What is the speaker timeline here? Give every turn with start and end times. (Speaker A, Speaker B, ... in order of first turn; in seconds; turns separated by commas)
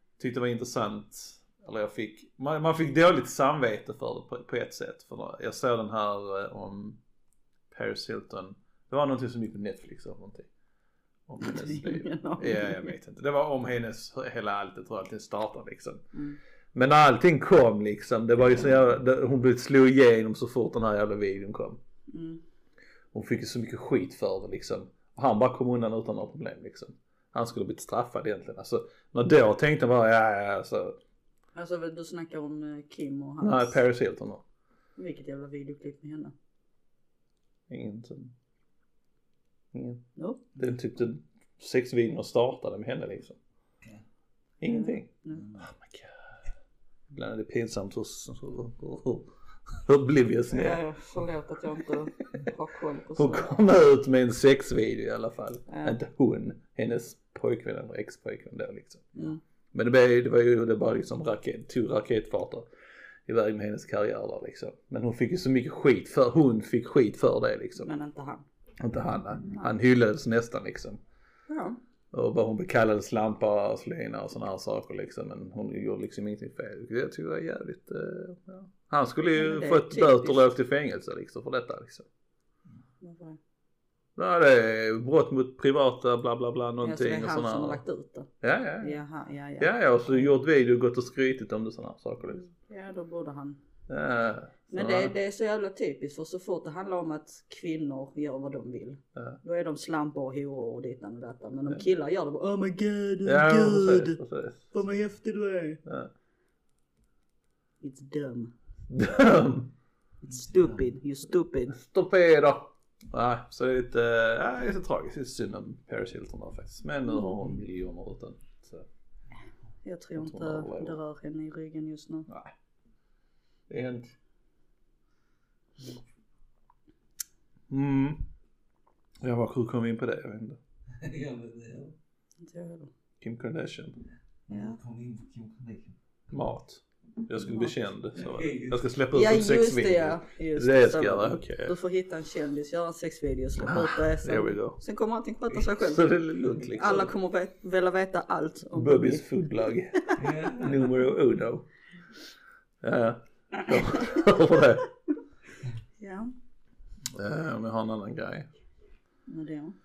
Speaker A: 0.2-7.0, Speaker A: 7.7-10.5, Speaker A: 11.3-16.0, Speaker B: 11.4-12.9, Speaker B: 16.1-16.4, Speaker A: 16.7-21.8, Speaker B: 22.1-22.4, Speaker A: 23.1-31.0, Speaker B: 31.6-33.8, Speaker A: 33.4-34.4, Speaker B: 35.0-36.3, Speaker A: 37.7-38.3, Speaker A: 39.7-40.0, Speaker B: 40.2-40.4, Speaker A: 40.6-43.4, Speaker A: 44.6-46.2, Speaker B: 44.6-45.5, Speaker C: 45.3-45.7, Speaker A: 47.1-50.8, Speaker B: 50.5-53.6, Speaker A: 53.1-59.1, Speaker B: 55.7-56.0, Speaker A: 59.7-62.6, Speaker A: 63.3-67.9, Speaker B: 67.8-68.5, Speaker A: 68.8-71.0, Speaker B: 71.5-71.8, Speaker A: 72.1-82.1, Speaker B: 79.3-80.5, Speaker B: 83.0-83.4, Speaker A: 84.2-87.8, Speaker B: 86.8-88.3, Speaker A: 88.4-89.0, Speaker B: 88.8-89.8, Speaker A: 89.6-92.5, Speaker B: 92.6-93.6, Speaker A: 93.9-95.2, Speaker B: 94.7-104.2, Speaker A: 103.2-104.7, Speaker B: 104.7-105.8, Speaker B: 107.8-108.5, Speaker A: 108.9-109.7, Speaker B: 110.2-111.8, Speaker C: 110.3-110.8, Speaker A: 111.7-118.9, Speaker B: 117.1-117.4, Speaker B: 119.8-122.3, Speaker A: 120.2-121.0, Speaker A: 123.7-124.1, Speaker A: 127.7-128.2, Speaker A: 129.2-130.6, Speaker C: 131.0-131.9, Speaker B: 132.4-132.9, Speaker A: 133.2-134.0, Speaker C: 134.5-136.0, Speaker B: 134.5-134.8, Speaker A: 136.3-141.7, Speaker B: 137.4-137.7, Speaker C: 138.2-138.8, Speaker B: 139.1-149.3, Speaker A: 143.6-144.8, Speaker A: 145.8-147.1, Speaker A: 148.7-151.7, Speaker C: 150.2-150.9, Speaker A: 152.8-154.9, Speaker B: 156.0-156.3, Speaker A: 157.1-158.5, Speaker B: 159.3-159.8